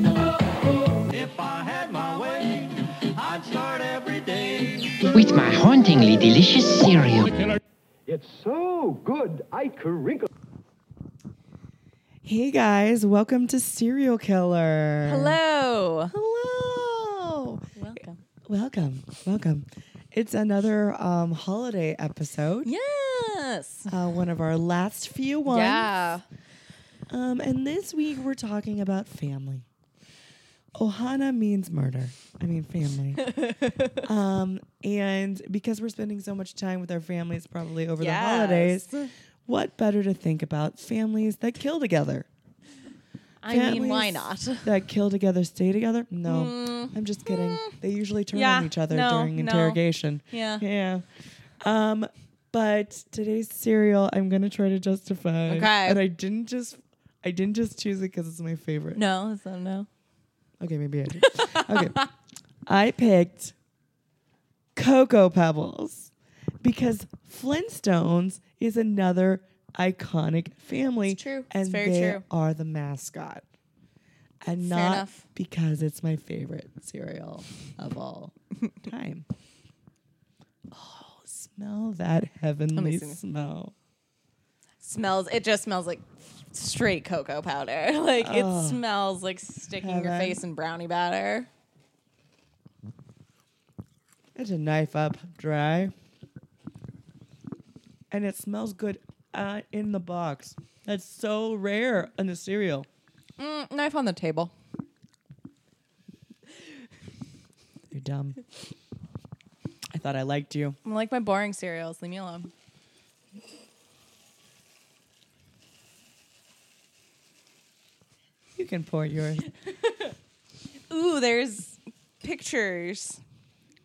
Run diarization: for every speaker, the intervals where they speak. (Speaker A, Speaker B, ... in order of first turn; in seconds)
Speaker A: 0.5-5.3, 7.3-7.6
Speaker B: 5.2-7.3
Speaker C: 8.1-10.3
Speaker D: 12.2-15.4, 16.1-17.7, 18.5-22.7, 23.9-25.9, 27.1-29.7, 30.8-33.4, 34.0-38.9, 39.5-42.3, 43.5-51.0, 51.6-59.0, 60.6-62.0, 62.7-63.5, 64.8-66.1, 66.6-73.4, 74.5-79.3, 80.7-83.7, 88.2-88.8, 89.8-90.4, 94.3-95.9, 98.1-102.9, 107.9-108.4, 109.9-110.8, 118.6-119.5
Speaker E: 15.1-16.1, 17.8-18.2, 22.6-23.9, 25.5-26.2, 33.2-34.1, 38.0-39.1, 43.4-44.7, 46.3-47.8, 48.3-49.8, 50.3-50.6, 55.5-56.0, 59.0-59.9, 61.3-62.1, 71.1-72.2, 74.6-75.2, 82.8-83.2, 84.8-91.5, 103.4-104.5, 110.8-112.5, 119.7-120.1, 120.9-123.2